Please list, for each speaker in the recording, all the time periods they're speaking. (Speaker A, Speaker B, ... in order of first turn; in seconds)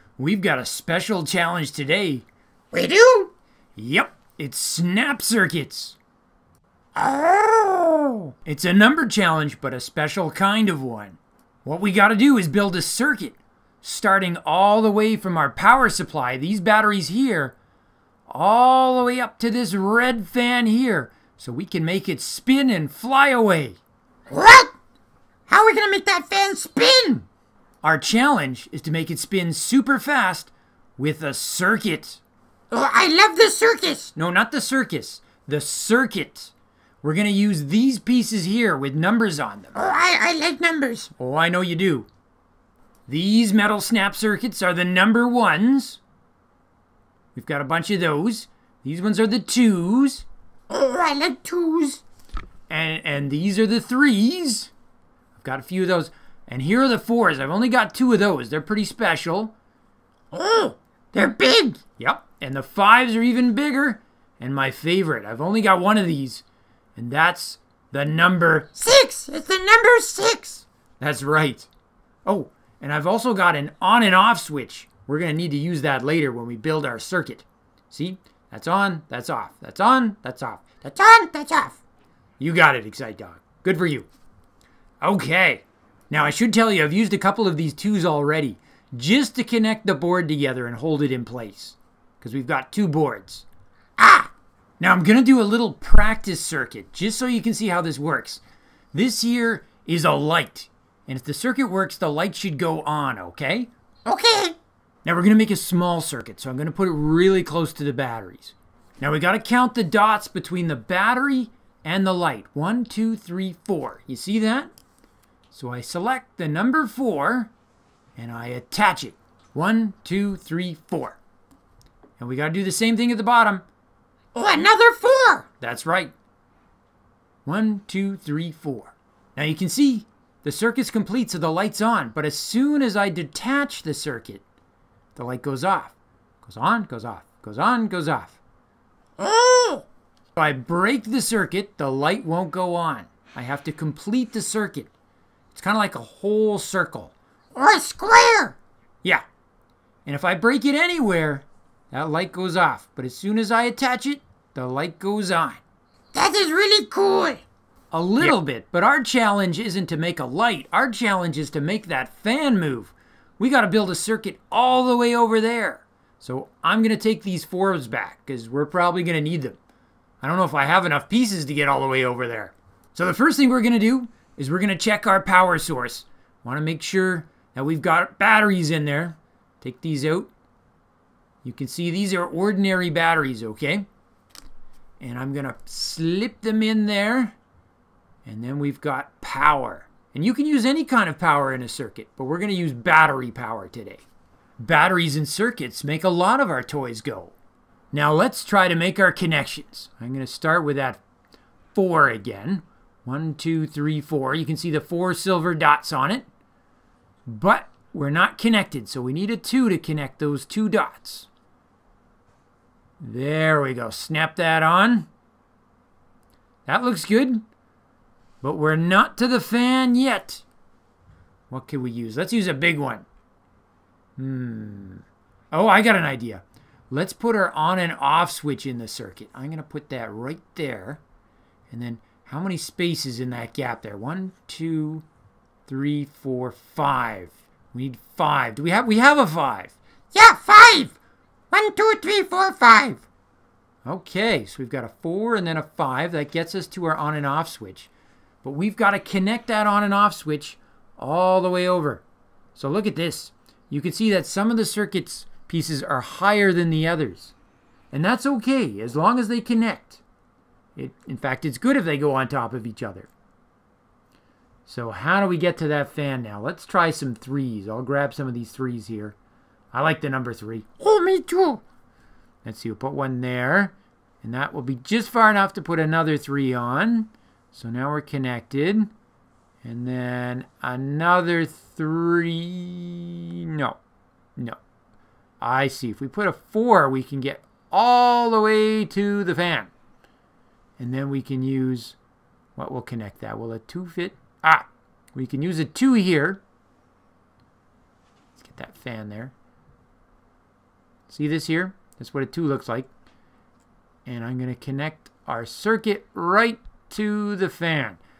Speaker A: 0.2-2.2, 3.8-6.0, 8.4-17.5, 18.3-23.8, 27.8-32.2, 34.1-39.8, 41.1-42.1, 43.1-46.0, 47.3-50.2, 52.7-54.7, 55.3-59.5, 62.0-66.4, 67.0-68.8, 71.0-71.7, 72.2-80.9, 82.4-84.1, 85.0-93.5, 94.8-98.4, 98.9-103.7, 105.0-114.7, 115.5-117.5, 118.2-121.2, 122.2-123.6, 125.5-126.1, 127.4-134.4, 135.1-138.4, 140.3-144.9, 145.5-147.1, 150.1-155.6, 157.9-169.6, 170.2-180.3, 181.4-183.9, 185.0-187.3, 188.2-194.0, 194.6-197.3, 197.9-201.0, 201.7-206.3, 207.2-211.3, 213.0-215.1, 216.7-217.4, 218.4-220.4, 221.5-223.1, 224.2-231.0, 231.7-235.0, 235.7-239.8, 243.8-247.9, 248.4-252.0, 252.6-257.3, 257.9-260.0, 260.8-263.1, 264.7-269.1, 269.7-270.8, 272.4-278.9, 279.6-283.8, 285.4-289.7, 290.8-291.9, 292.6-296.4, 298.4-299.3, 301.1-302.9, 304.1-308.0
Speaker B: 2.7-3.3, 6.9-8.3, 24.3-24.7, 25.5-27.2, 32.7-34.1, 39.7-41.1, 50.7-52.0, 60.3-61.8, 68.8-70.7, 80.9-81.8, 94.0-94.3, 104.0-104.5, 124.3-125.5, 139.2-139.8, 147.5-148.6, 156.1-157.4, 240.1-241.0, 241.5-243.0, 270.8-271.6